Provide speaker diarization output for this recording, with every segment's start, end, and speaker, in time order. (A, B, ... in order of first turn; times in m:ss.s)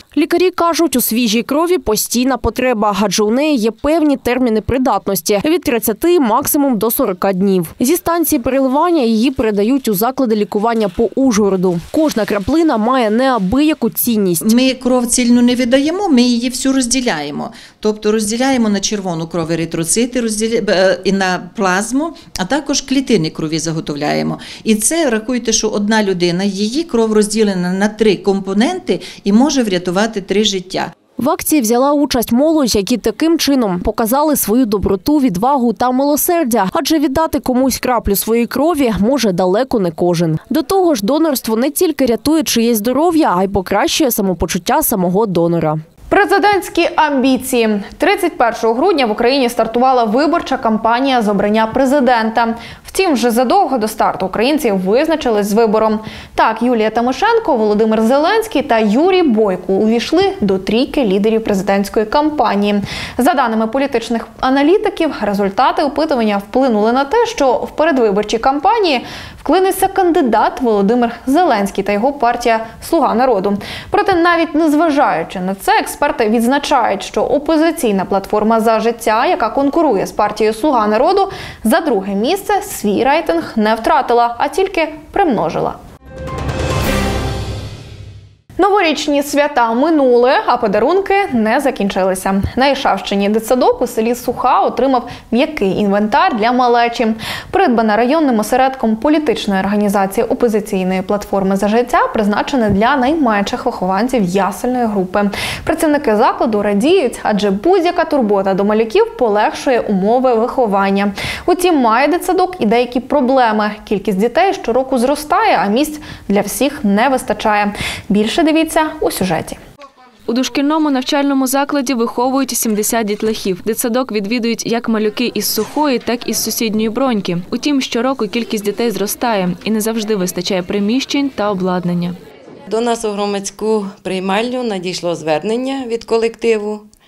0:00.2-0:14.6 A
0:14.4-0:30.9 B
0:31.2-0:45.8 A
0:46.1-1:25.8 C
1:28.6-1:59.6 C
2:00.3-2:12.2 D
2:12.7-2:16.9 E